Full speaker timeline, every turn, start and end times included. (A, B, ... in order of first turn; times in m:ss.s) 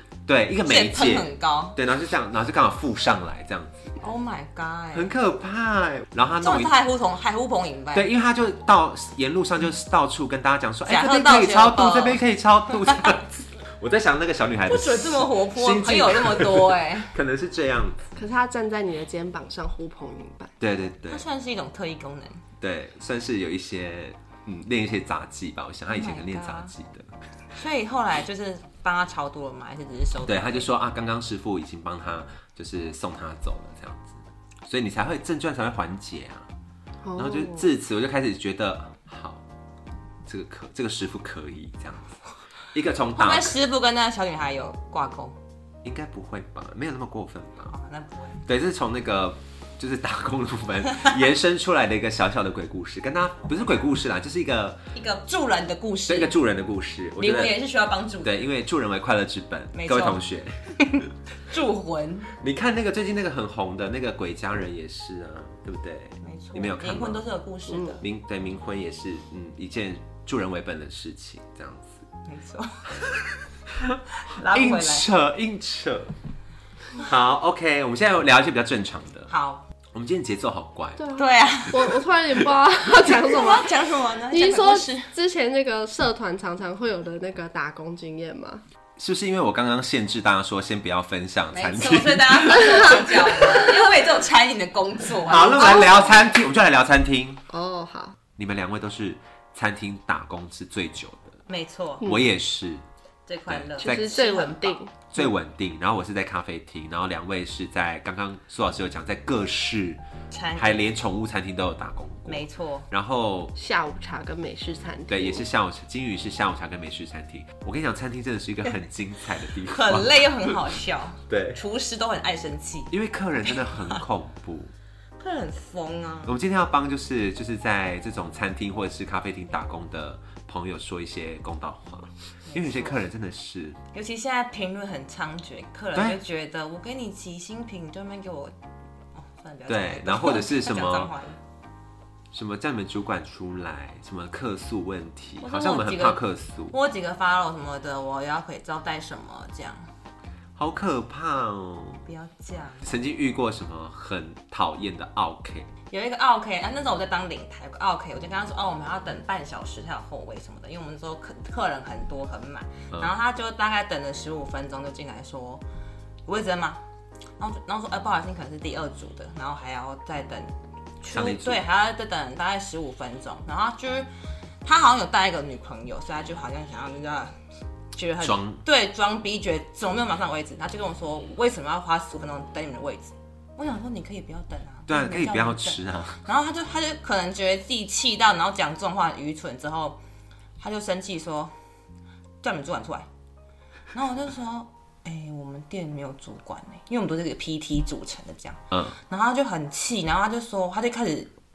0:00.2-0:03.8 A
0:00.6-0:01.8 B
0:04.0-0:05.1 B
0:04.9-0:06.7 A
0:06.4-0:08.1 B
0:07.9-0:18.0 A
0:10.9-0:12.2 B
0:12.8-0:13.1 B
0:14.7-0:17.1 B
0:18.2-0:20.5 C
0:20.6-0:21.2 A
0:21.1-0:22.4 B
0:22.6-0:27.1 A
0:25.9-0:26.7 B
0:27.5-0:30.7 B
0:30.2-0:36.5 A
0:37.0-0:37.7 C
0:37.2-0:39.4 A
0:40.2-0:42.2 A
0:42.7-0:43.6 A
0:43.2-0:45.4 B
0:45.8-0:47.7 A
0:47.7-0:48.4 B
0:48.4-0:54.8 A
0:54.9-0:56.4 B
0:56.1-0:57.6 A
0:57.2-0:58.4 B
0:58.2-1:01.1 A
0:59.7-1:00.2 B
1:00.8-1:02.3 B
1:02.4-1:07.3 A
1:06.2-1:08.0 B
1:07.7-1:08.0 C
1:08.0-1:12.0 A
1:12.3-1:13.2 B
1:13.7-1:16.1 A
1:14.2-1:15.1 B
1:17.0-1:19.3 A
1:19.3-1:19.6 B
1:19.9-1:21.0 A
1:21.0-1:23.7 C
1:21.1-1:22.0 B
1:23.0-1:25.1 B
1:24.3-1:28.6 C
1:29.0-1:33.2 A
1:31.5-1:36.2 B
1:35.2-1:37.4 A
1:35.6-1:35.9 C
1:37.5-1:38.2 C
1:38.4-1:41.4 A
1:41.5-1:42.1 B
1:42.0-1:42.8 A
1:43.3-1:44.8 B
1:43.5-1:44.1 A
1:43.8-1:45.2 C
1:45.1-1:50.0 A
1:50.3-1:50.9 B
1:50.5-1:53.5 A
1:52.3-1:52.9 B
1:53.6-1:55.4 C
1:55.1-2:00.6 A
1:59.6-2:02.9 B
2:01.3-2:01.6 A
2:02.9-2:04.7 A
2:03.4-2:04.0 B
2:05.2-2:06.4 B
2:06.2-2:13.8 A
2:12.5-2:13.0 B
2:13.9-2:18.5 B
2:15.9-2:16.2 A
2:19.1-2:21.4 B
2:19.7-2:21.1 A
2:22.3-2:26.8 A
2:25.4-2:26.2 B
2:26.7-2:29.9 B
2:30.6-2:32.0 A
2:32.0-2:32.9 B
2:32.8-2:35.7 A
2:35.9-2:45.6 B
2:46.2-2:46.8 B
2:47.4-2:54.1 B
2:51.1-2:51.6 A
2:54.6-2:57.3 B
2:57.9-3:10.0 B
2:58.2-2:58.6 A
3:04.9-3:06.2 A
3:10.6-3:11.5 B
3:12.4-3:13.1 B
3:13.9-3:21.3 B
3:18.7-3:19.0 A